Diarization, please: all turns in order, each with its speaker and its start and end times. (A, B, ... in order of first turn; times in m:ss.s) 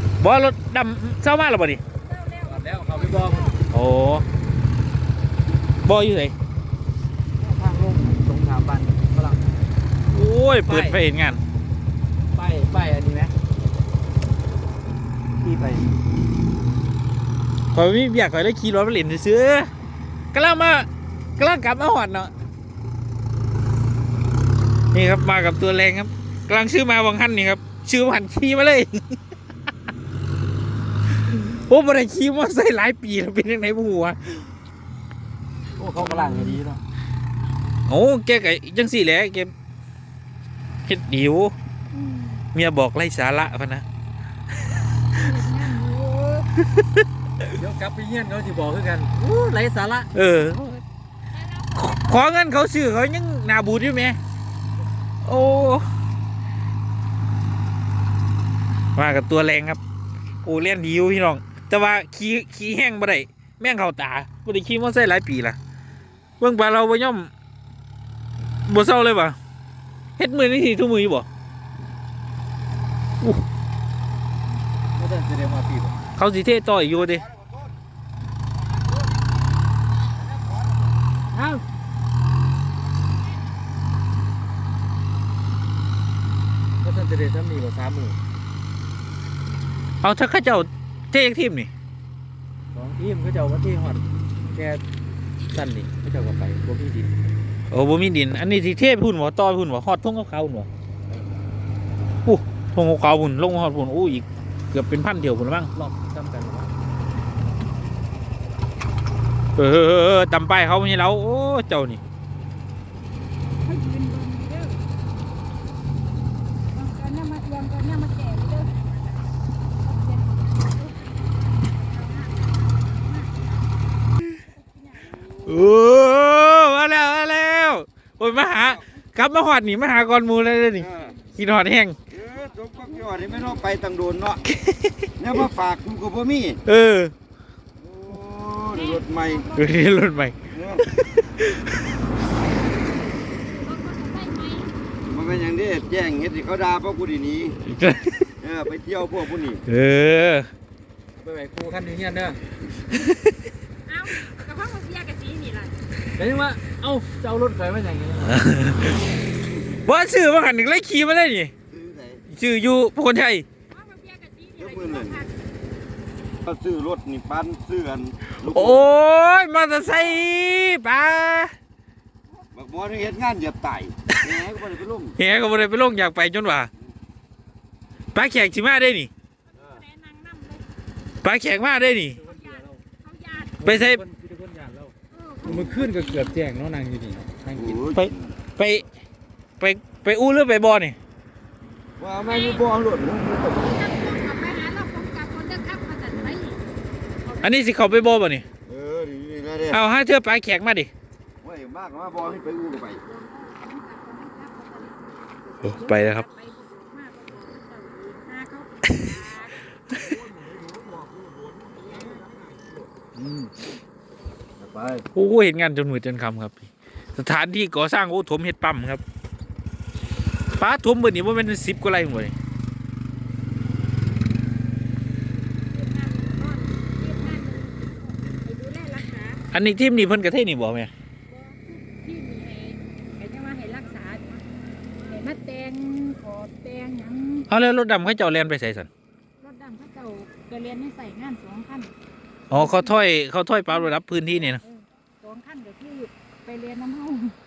0:00.2-0:01.8 A
0:02.0-0:03.6 B
0:02.4-0:03.5 C
0:03.7-0:04.3 A
0:05.8-0:06.4 A
0:07.4-0:09.4 C
0:10.1-0:11.4 A
0:10.7-0:11.0 C
0:12.3-0:13.3 C
0:15.4-0:15.9 C
0:17.7-0:19.7 A
0:20.3-0:20.9 A
0:21.4-0:22.3 A
0:24.9-0:29.2 A
0:31.5-0:34.4 A
0:35.8-0:36.8 C
0:37.9-0:39.5 A
0:40.9-0:41.5 A
0:41.9-0:42.4 B
0:42.5-0:43.8 A
0:45.0-0:46.5 B
0:47.5-0:50.1 C
0:50.1-0:50.7 A
0:51.4-0:52.3 B
0:51.8-0:54.2 A
0:55.2-0:55.9 A
0:59.0-0:59.8 A
1:00.4-1:05.6 A
1:06.4-1:07.3 A
1:08.7-1:09.4 A
1:10.2-1:11.3 A
1:15.0-1:16.0 C
1:16.2-1:17.3 A
1:20.4-1:20.7 D
1:21.3-1:21.6 C
1:26.8-1:28.2 C
1:30.0-1:31.7 A
1:32.7-1:34.8 C
1:35.5-1:37.2 C
1:37.7-1:40.7 A
1:42.3-1:45.7 A
1:45.8-1:46.7 C
1:49.6-1:52.0 A
1:53.6-1:54.8 B
1:56.7-1:59.1 B
1:59.8-2:03.6 B
2:04.3-2:05.2 B
2:05.4-2:12.0 A
2:10.8-2:11.2 D
2:12.1-2:14.5 D
2:12.7-2:13.7 B
2:15.2-2:16.6 D
2:16.7-2:17.1 A
2:17.8-2:19.5 D
2:18.7-2:20.3 B
2:19.5-2:21.6 A
2:20.5-2:20.9 D
2:23.3-2:24.7 B
2:25.0-2:27.6 D
2:27.7-2:28.3 A
2:28.4-2:29.6 D
2:29.7-2:30.5 A
2:31.2-2:32.4 C
2:33.9-2:35.8 B
2:36.2-2:38.5 C
2:38.3-2:39.0 A
2:39.7-2:41.5 A
2:41.7-2:42.2 D
2:42.3-2:43.5 A
2:43.7-2:45.4 B
2:44.6-2:45.2 D
2:46.4-2:48.8 D
2:48.4-2:51.5 A
2:52.5-2:55.2 D
2:55.2-2:56.7 A
2:58.1-2:59.1 A
2:59.5-3:00.6 B
3:01.2-3:02.2 A
3:02.2-3:02.8 C
3:02.2-3:03.6 B
3:03.6-3:04.9 C
3:03.6-3:04.0 A
3:05.1-3:06.4 B
3:05.4-3:07.8 C
3:07.5-3:08.4 D
3:07.9-3:08.9 A
3:09.6-3:11.0 A
3:12.0-3:13.6 D
3:12.2-3:12.6 B
3:13.4-3:16.6 B
3:16.1-3:16.4 D
3:17.2-3:18.2 B
3:17.4-3:18.4 A
3:18.7-3:19.8 D
3:19.7-3:20.9 A
3:21.4-3:23.0 D
3:23.0-3:29.6 B
3:25.6-3:26.3 A
3:30.4-3:32.7 D
3:33.2-3:33.5 C
3:34.6-3:35.0 C
3:35.1-3:39.0 A
3:40.6-3:42.3 A
3:45.7-3:49.4 B
3:49.5-3:50.9 A
3:51.3-3:54.4 B
3:55.1-3:57.5 B
3:57.5-3:58.9 A
3:59.4-4:01.9 B
4:02.5-4:04.6 A
4:02.5-4:02.9 B
4:03.7-4:07.4 B